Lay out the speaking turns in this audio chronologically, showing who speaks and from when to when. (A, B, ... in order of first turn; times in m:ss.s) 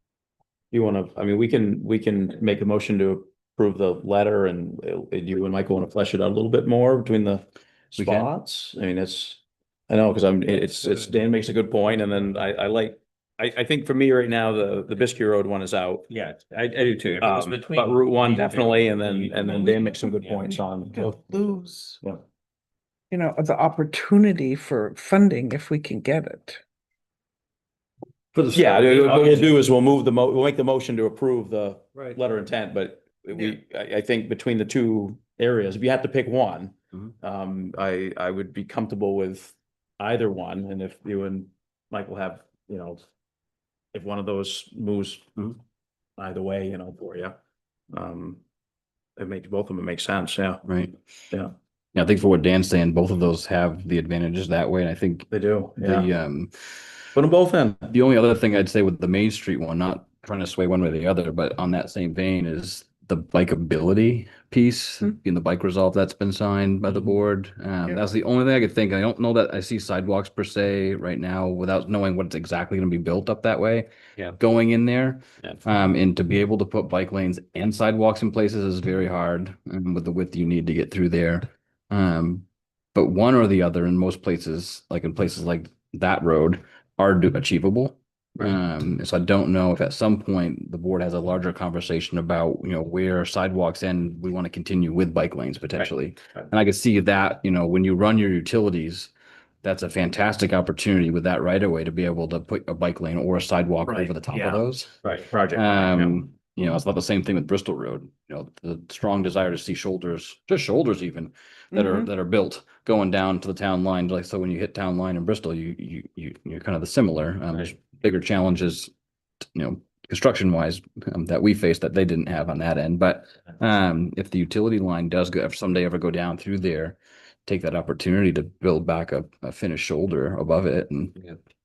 0:00.7-0:16.0 A
0:08.0-0:08.3 B
0:16.1-0:20.6 C
0:17.2-0:21.3 A
0:20.9-0:22.0 D
0:23.1-0:26.6 D
0:28.3-0:29.5 B
0:28.5-0:43.0 A
0:43.9-0:45.5 A
0:46.2-0:47.3 A
0:47.9-0:48.4 A
0:49.2-0:50.6 A
0:50.6-0:51.0 B
0:51.9-0:56.5 B
0:55.3-0:56.1 A
0:57.1-0:57.9 A
0:57.9-1:39.1 B
1:15.4-1:15.7 C
1:35.7-1:36.5 C
1:39.6-1:45.0 B
1:43.8-1:44.6 A
1:45.0-1:46.0 C
1:45.5-1:58.9 B
1:45.6-1:46.1 A
1:51.7-1:52.1 D
1:59.5-2:11.2 B